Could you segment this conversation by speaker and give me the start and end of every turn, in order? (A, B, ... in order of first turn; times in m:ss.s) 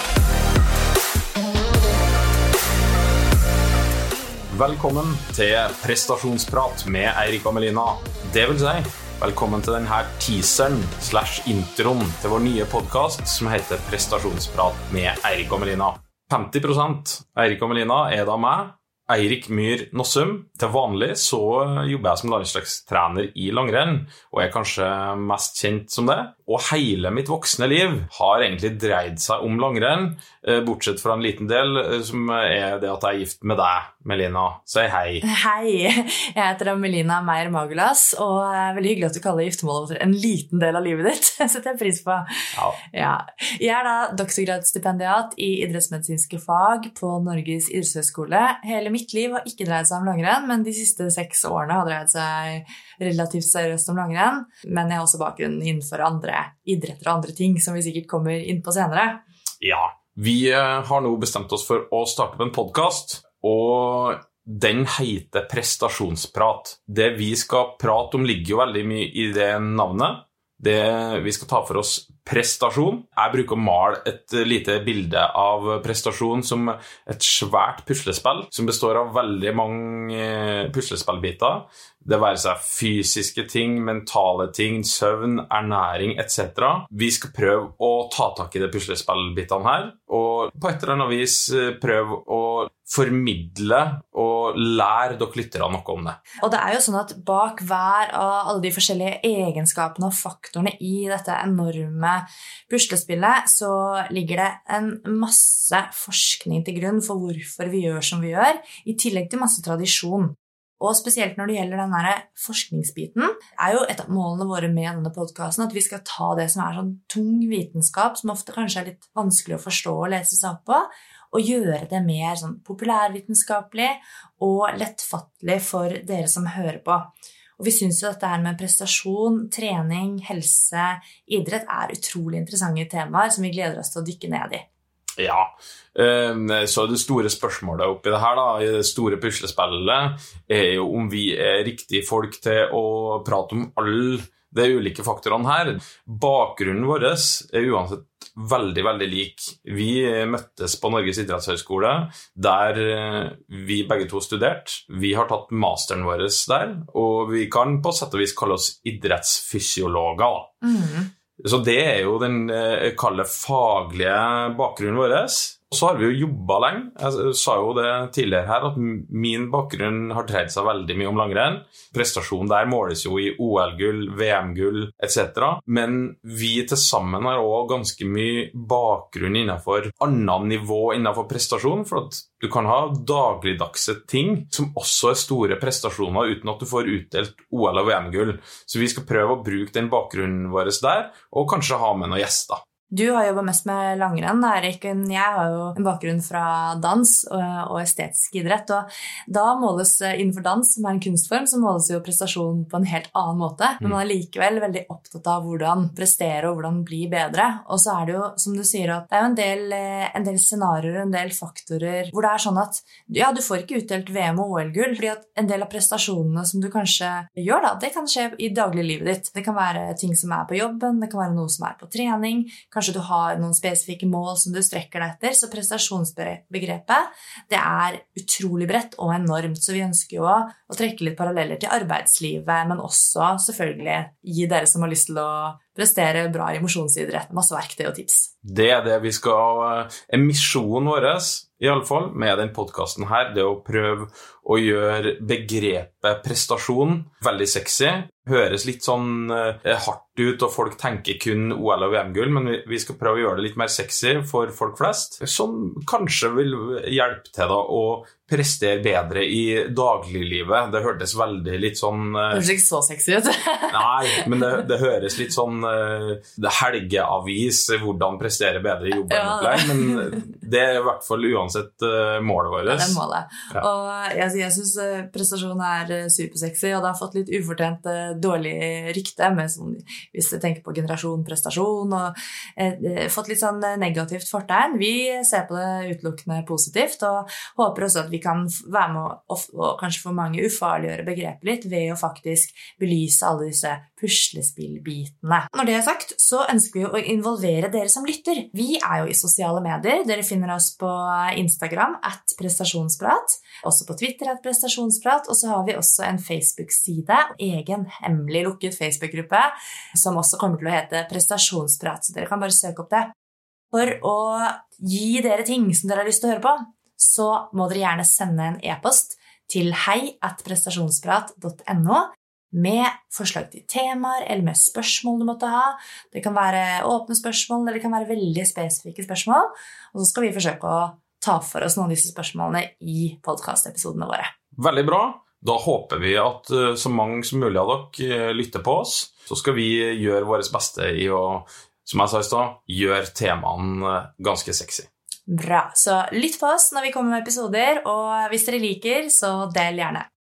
0:04.5-0:35.2 A
0:35.2-0:59.2 B
0:59.6-1:36.2 A
1:36.4-2:14.7 B
2:15.2-2:40.5 A
2:40.6-2:41.1 B
2:41.4-3:12.6 A
3:12.9-3:58.3 B
3:58.4-4:22.5 A
4:22.3-4:24.6 B
4:23.7-4:33.0 A
4:29.1-4:30.3 B
4:32.7-5:13.1 B
5:13.7-5:34.3 B
5:34.6-5:44.9 A
5:45.3-5:50.1 B